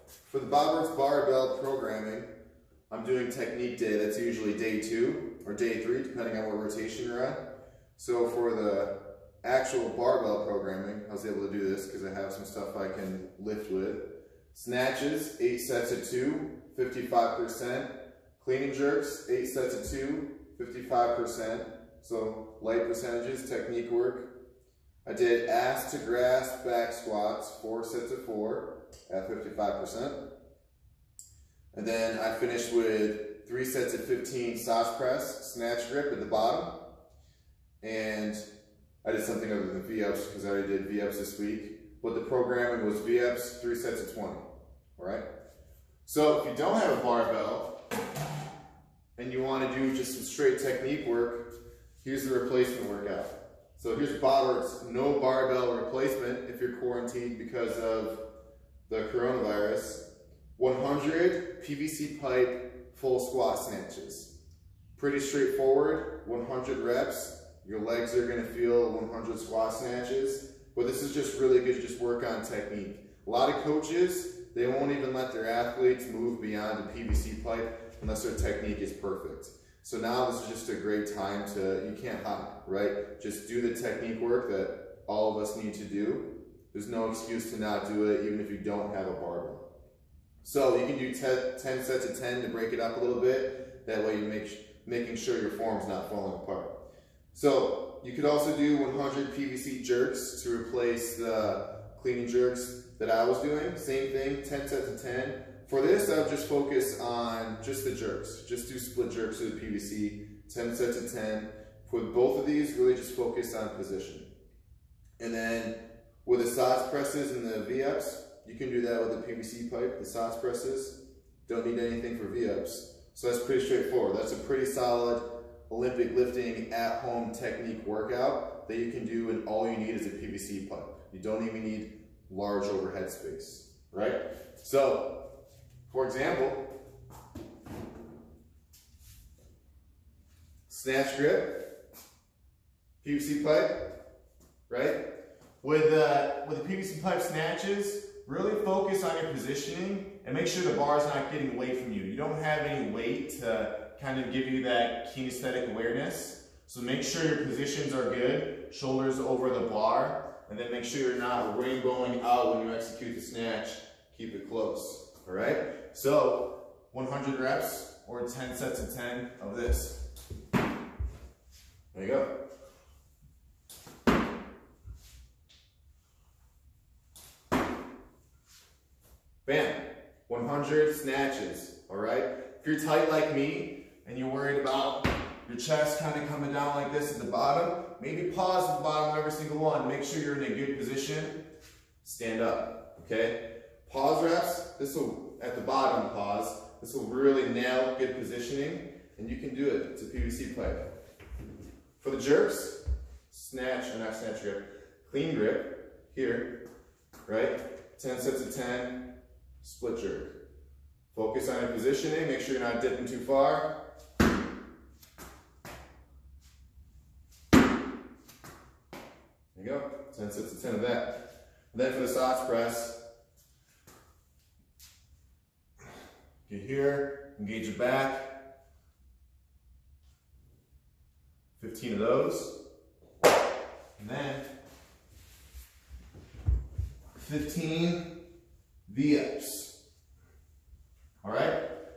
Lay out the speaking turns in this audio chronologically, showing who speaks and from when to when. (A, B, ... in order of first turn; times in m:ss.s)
0:00.2-0:02.3 A
0:02.9-0:07.4 A
0:08.0-0:24.3 A
0:25.0-0:30.2 A
0:31.7-0:36.8 A
0:37.8-0:38.4 A
0:39.0-0:44.4 A
0:45.0-0:45.2 A
0:46.0-0:47.8 A
0:49.2-0:51.5 A
0:52.0-0:58.2 A
0:58.9-1:04.3 A
1:05.0-1:29.6 A
1:30.4-1:36.7 A
1:37.3-1:54.3 A
1:55.2-2:15.2 A
2:15.9-2:16.7 A
2:20.7-2:21.6 A
2:23.0-2:23.9 A
2:24.7-2:25.0 A
2:25.6-2:50.0 A
2:51.9-2:52.3 A
2:59.4-3:11.4 A
3:12.0-3:20.9 A
3:22.0-3:26.6 A
3:27.3-3:29.1 A
3:29.6-3:30.4 A
3:31.1-3:33.7 A
3:39.6-3:43.0 A
3:46.5-3:48.4 A
3:51.6-3:52.6 A
3:54.0-3:54.5 A
3:57.2-3:58.1 A
3:58.9-3:59.8 A
4:01.2-4:01.6 A